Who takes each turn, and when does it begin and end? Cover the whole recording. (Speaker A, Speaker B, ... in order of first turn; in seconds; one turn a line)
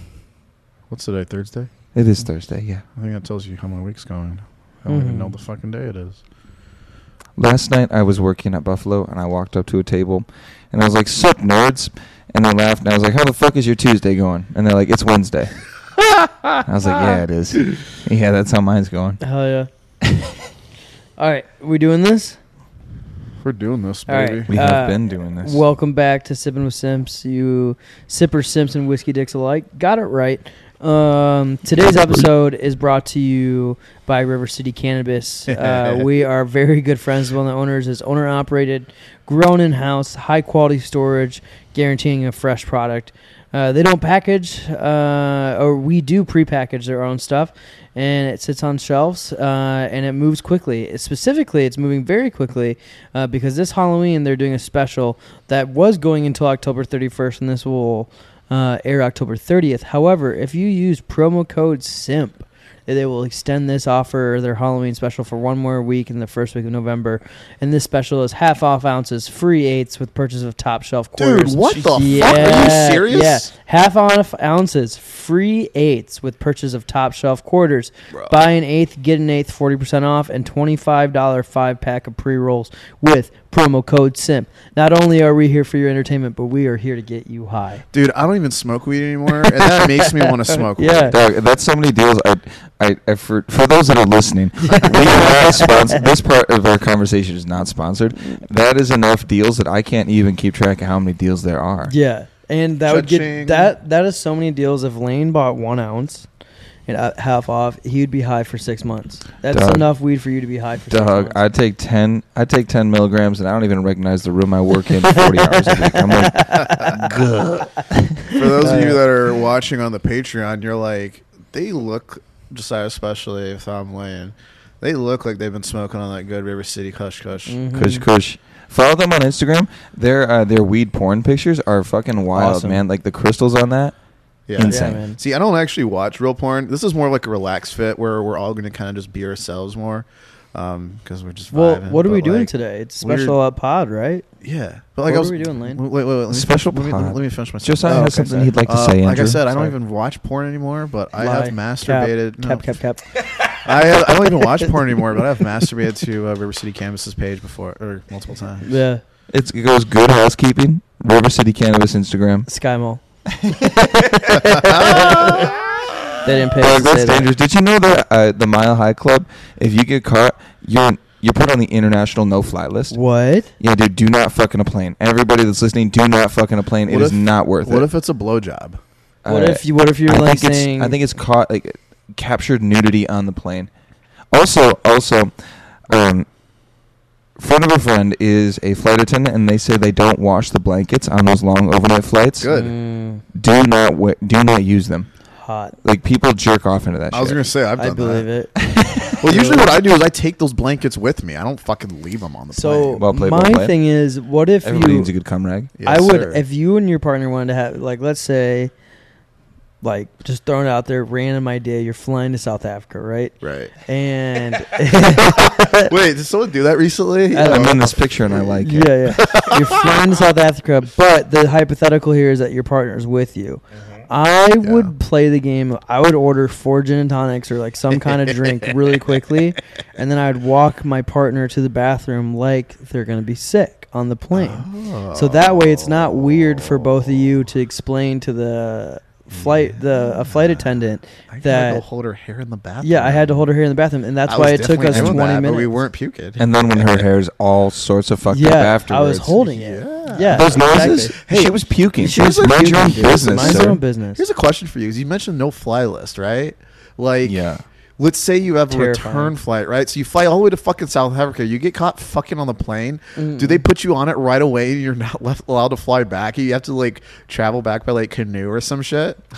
Speaker A: 0.9-1.7
Speaker B: 1.9-2.8
Speaker A: 3.0-6.2
Speaker C: 4.9-5.4
Speaker B: 7.4-15.6
Speaker B: 16.6-19.2
Speaker C: 19.2-19.7
Speaker B: 20.0-20.3
Speaker C: 21.2-22.4
Speaker A: 23.4-24.5
Speaker C: 24.1-87.8
Speaker B: 24.5-25.6
Speaker B: 31.8-32.3
Speaker A: 35.5-36.1
Speaker A: 71.2-73.5
Speaker A: 87.9-91.2
Speaker C: 89.8-91.2
Speaker B: 91.1-101.9
Speaker C: 94.7-96.0
Speaker C: 101.9-106.3
Speaker A: 102.9-103.7
Speaker C: 106.9-111.4
Speaker B: 109.5-109.9
Speaker B: 110.9-118.2
Speaker C: 115.1-117.2
Speaker A: 116.8-117.2
Speaker C: 117.8-119.0
Speaker A: 118.3-127.6
Speaker C: 127.5-128.1
Speaker B: 127.7-133.9
Speaker C: 132.3-132.8
Speaker A: 134.5-143.4
Speaker B: 134.6-135.1
Speaker C: 134.7-135.2
Speaker C: 141.5-144.3
Speaker A: 144.4-152.7
Speaker C: 145.0-145.8
Speaker B: 146.3-149.5
Speaker C: 151.2-153.2
Speaker A: 153.6-158.7
Speaker C: 154.4-154.7
Speaker C: 158.6-159.0
Speaker B: 159.3-162.5
Speaker C: 162.5-163.0
Speaker B: 163.4-165.6
Speaker C: 163.9-165.6
Speaker C: 166.2-167.3
Speaker B: 166.5-173.0
Speaker C: 172.9-173.5
Speaker B: 173.6-177.9
Speaker A: 176.9-178.8
Speaker B: 179.2-183.7
Speaker C: 179.3-181.0
Speaker B: 184.3-185.3
Speaker B: 185.9-186.3
Speaker B: 187.4-192.5
Speaker A: 192.4-192.8
Speaker C: 192.5-193.2
Speaker B: 193.3-195.1
Speaker C: 195.4-195.8
Speaker B: 195.8-197.5
Speaker A: 197.1-198.3
Speaker C: 197.8-198.6
Speaker B: 198.6-199.2
Speaker A: 199.2-203.0
Speaker C: 199.2-199.7
Speaker C: 202.5-205.1
Speaker B: 203.0-203.8
Speaker B: 204.6-205.7
Speaker A: 205.8-206.4
Speaker C: 205.8-208.7
Speaker C: 209.8-215.9
Speaker A: 213.4-213.7
Speaker A: 215.7-218.5
Speaker C: 217.3-217.8
Speaker B: 217.4-219.0
Speaker C: 218.6-241.8
Speaker A: 219.2-220.0
Speaker A: 224.6-224.9
Speaker A: 228.1-228.7
Speaker A: 234.3-237.2
Speaker A: 240.2-240.6
Speaker A: 241.3-243.4
Speaker C: 242.8-245.8
Speaker A: 244.3-247.1
Speaker B: 244.9-245.2
Speaker B: 246.4-249.4
Speaker C: 248.3-251.2
Speaker A: 249.4-257.4
Speaker B: 250.3-253.8
Speaker C: 252.0-254.2
Speaker B: 257.2-257.6
Speaker A: 258.0-269.2
Speaker C: 258.7-259.3
Speaker C: 263.2-263.6